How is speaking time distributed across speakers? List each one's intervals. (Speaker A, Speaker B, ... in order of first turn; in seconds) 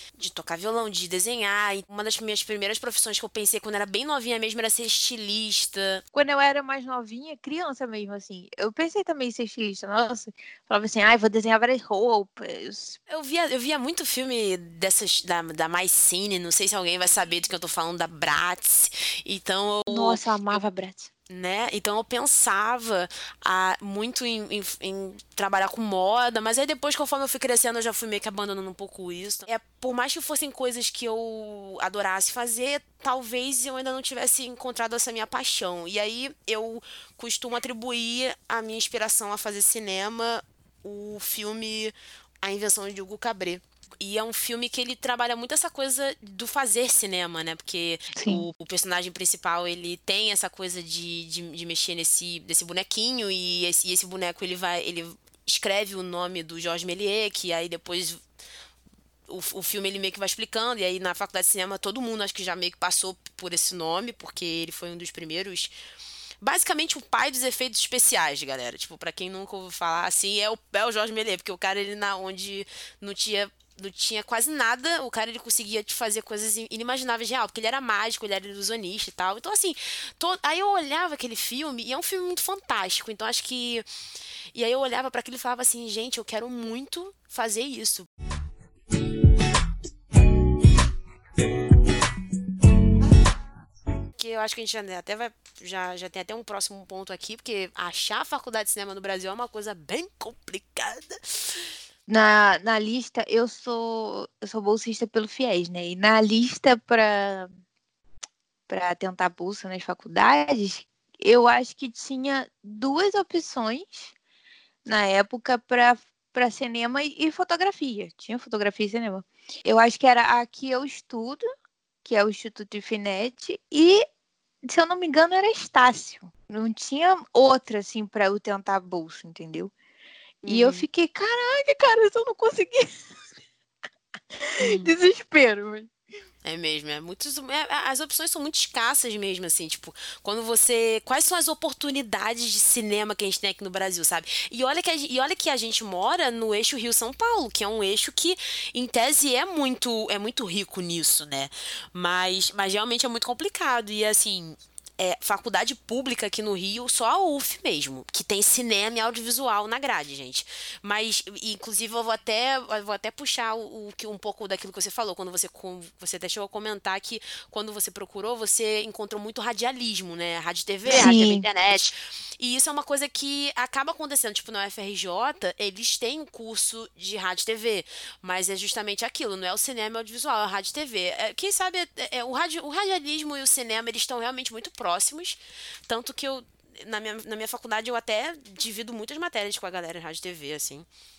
Speaker A: 0.2-6.0, 13.1-20.6, 21.3-58.2, 59.3-65.7, 66.4-83.8, 84.5-88.1, 94.2-101.6, 130.5-130.9, 134.6-134.9, 136.4-190.9
Speaker B: 6.1-13.0, 19.9-21.1, 48.1-48.4, 102.1-107.5, 108.7-114.1, 114.9-121.4, 122.0-124.0, 124.7-129.7, 130.4-132.9, 134.4-135.9, 170.9-171.5